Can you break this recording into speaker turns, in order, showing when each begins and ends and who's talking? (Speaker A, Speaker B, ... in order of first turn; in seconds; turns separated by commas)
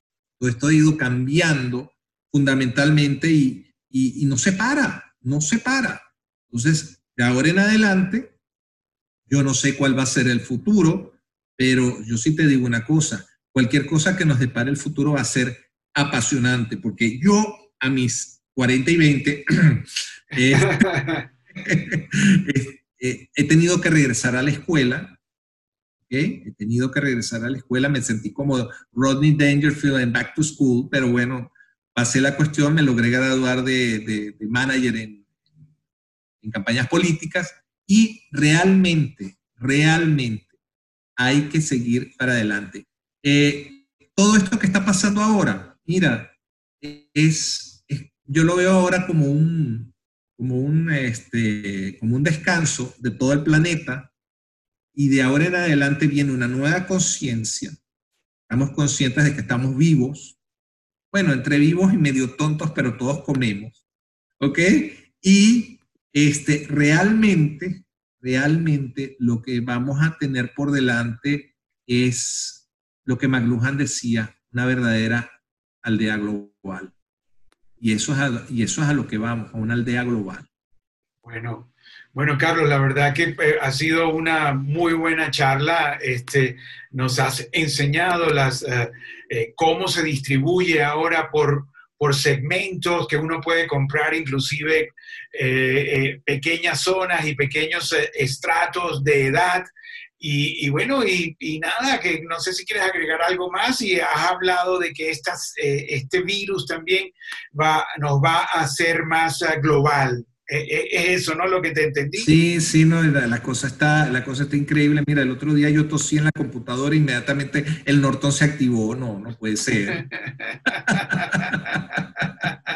Speaker A: 0.4-8.4, Speaker A: 9.3-20.9, Speaker B: 20.5-21.2, Speaker A: 21.6-25.2, Speaker A: 26.1-35.3, Speaker A: 36.4-40.5, Speaker A: 41.2-54.1, Speaker A: 54.9-57.7, Speaker A: 58.5-60.4, Speaker A: 61.1-63.8, Speaker A: 64.4-75.3, Speaker A: 75.8-76.9, Speaker A: 77.8-80.5, Speaker B: 81.2-99.7, Speaker B: 100.2-112.3, Speaker A: 112.1-120.0, Speaker B: 120.0-122.5, Speaker A: 121.1-121.8